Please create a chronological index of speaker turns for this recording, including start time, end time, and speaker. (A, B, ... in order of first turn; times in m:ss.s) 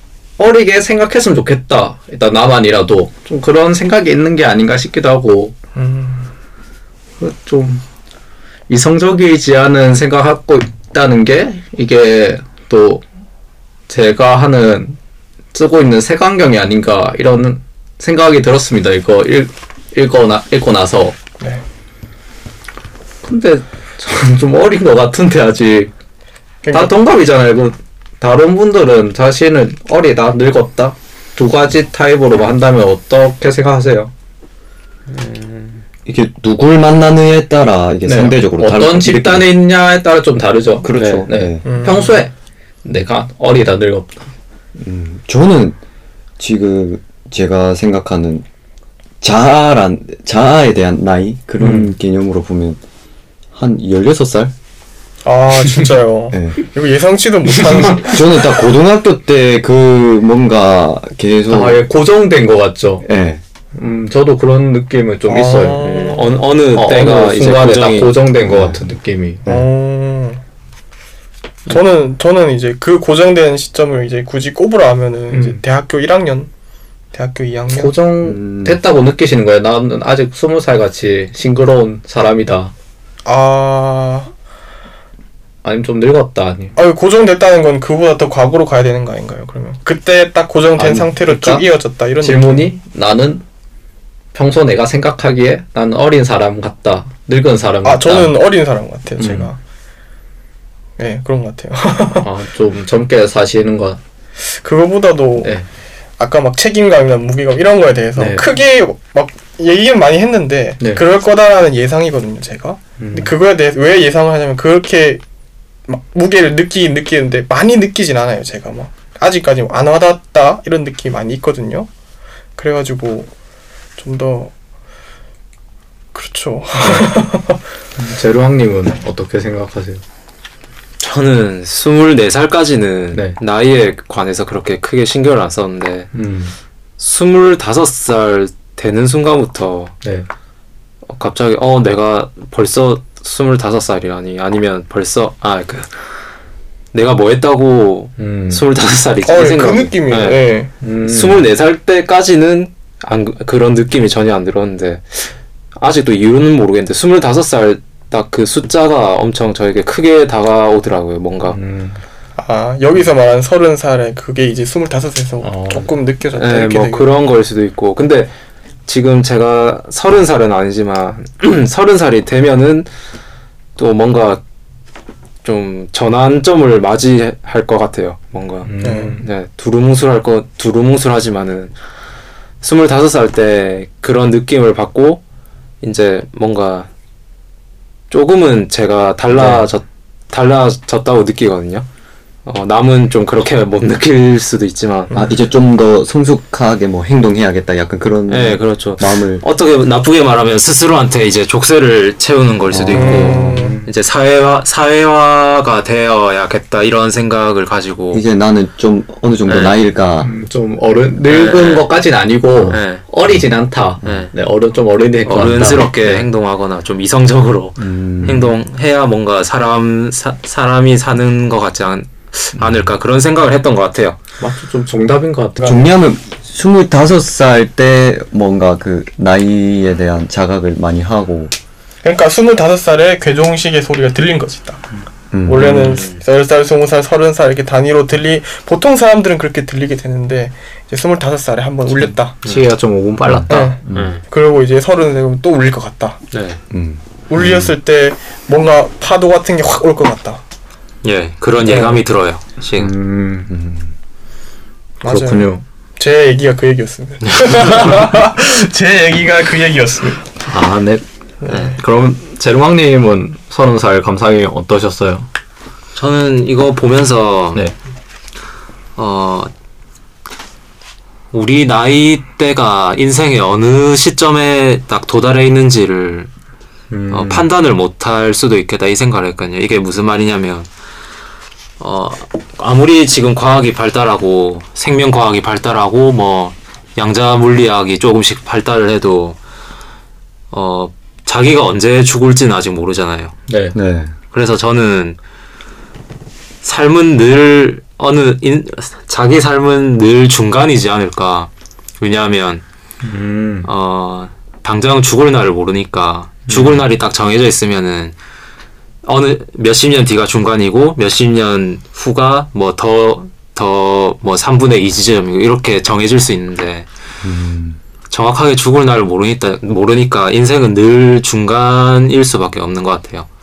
0:00.4-0:05.5 A
0:05.7-0:06.3 B
0:07.2-0:07.8 A
0:08.7-0:13.0 A
0:13.9-0:15.0 A
0:15.5-0:21.2 A
0:23.2-0:25.9 A
0:26.6-0:26.9 B
0:26.7-0:34.1 A
0:35.1-0:35.8 C
0:36.0-0:39.5 D
0:38.0-0:44.3 A
0:40.8-0:41.8 D
0:41.6-0:42.2 B
0:44.8-0:45.8 D
0:46.4-0:48.4 D
0:49.2-0:52.8 D
0:51.6-0:51.9 A
0:53.5-0:54.5 D
0:55.2-0:58.4 B
0:56.3-0:56.6 D
0:58.1-1:01.8 D
1:01.5-1:03.0 A
1:03.0-1:03.4 D
1:03.8-1:05.8 A
1:05.3-1:06.3 B
1:05.8-1:08.1 C
1:06.7-1:09.4 A
1:08.5-1:08.8 D
1:09.4-1:10.4 B
1:11.7-1:16.5 B
1:15.3-1:15.6 A
1:17.1-1:17.9 B
1:17.7-1:22.7 A
1:18.2-1:18.8 D
1:23.2-1:24.3 B
1:25.6-1:26.8 A
1:26.8-1:32.7 B
1:30.8-1:31.6 A
1:32.2-1:33.4 A
1:34.3-1:38.3 A
1:37.8-1:39.6 B
1:39.2-1:39.5 A
1:41.0-1:42.3 B
1:42.2-1:44.0 A
1:44.5-1:45.6 B
1:45.4-1:45.7 A
1:46.2-1:55.2 B
1:48.2-1:48.4 A
1:53.0-1:53.3 A
1:55.9-2:01.9 B
2:02.6-2:03.3 B
2:04.0-2:04.5 B
2:06.1-2:07.6 B
2:06.8-2:07.1 A
2:08.0-2:10.0 A
2:11.0-2:16.1 C
2:16.1-2:16.5 A
2:17.0-2:19.9 C
2:21.1-2:25.9 C
2:26.9-2:30.4 C
2:28.2-2:28.6 A
2:29.2-2:30.7 B
2:30.8-2:31.4 A
2:31.0-2:41.6 C
2:41.5-2:42.0 A
2:42.4-2:47.1 B
2:45.4-2:45.9 A
2:46.4-2:48.3 C
2:48.9-2:52.9 C
2:53.8-2:54.4 C
2:55.4-3:01.7 C
2:58.6-2:59.2 A
2:58.8-2:59.2 B
3:02.6-3:05.2 C
3:05.8-3:06.9 C
3:08.1-3:11.8 C
3:09.3-3:09.6 A
3:12.4-3:15.1 C
3:15.1-3:19.4 D
3:18.3-3:28.2 C
3:22.7-3:23.7 D
3:22.9-3:23.7 B
3:23.1-3:23.9 A
3:28.1-3:30.3 D
3:29.5-3:29.8 C
3:30.2-3:36.2 A
3:31.3-3:31.9 C
3:32.7-3:33.0 C
3:34.0-3:34.3 C
3:35.3-3:44.2 C
3:37.8-3:38.5 D
3:44.4-3:45.7 A
3:45.6-3:45.8 B
3:45.6-3:51.5 D
3:52.0-3:54.8 B
3:55.3-3:56.0 D
3:55.4-4:02.4 B
3:55.7-3:56.2 C
4:02.4-4:03.7 A
4:03.2-4:04.1 D
4:03.5-4:06.2 B
4:03.9-4:04.2 C
4:06.3-4:06.6 C
4:06.7-4:07.7 D
4:07.3-4:10.4 B
4:11.0-4:12.9 C
4:11.6-4:12.0 B
4:12.8-4:13.5 A
4:13.5-4:13.9 D
4:15.0-4:20.3 B
4:15.0-4:15.6 A
4:17.2-4:17.9 C
4:20.5-4:25.3 A
4:21.4-4:21.8 B
4:21.5-4:21.7 C
4:25.9-4:27.6 C
4:29.0-4:29.5 C
4:31.3-4:36.3 C
4:36.9-4:37.5 A
4:37.1-4:40.7 C
4:41.8-4:49.4 C
4:50.5-4:53.3 C
4:53.5-4:53.8 A
4:53.7-4:54.1 D
4:54.3-4:55.2 C
4:56.6-5:02.6 C
5:03.0-5:03.7 A
5:03.6-5:08.1 C
5:06.5-5:06.8 A
5:09.0-5:16.9 C
5:17.2-5:17.8 D
5:18.1-5:23.3 C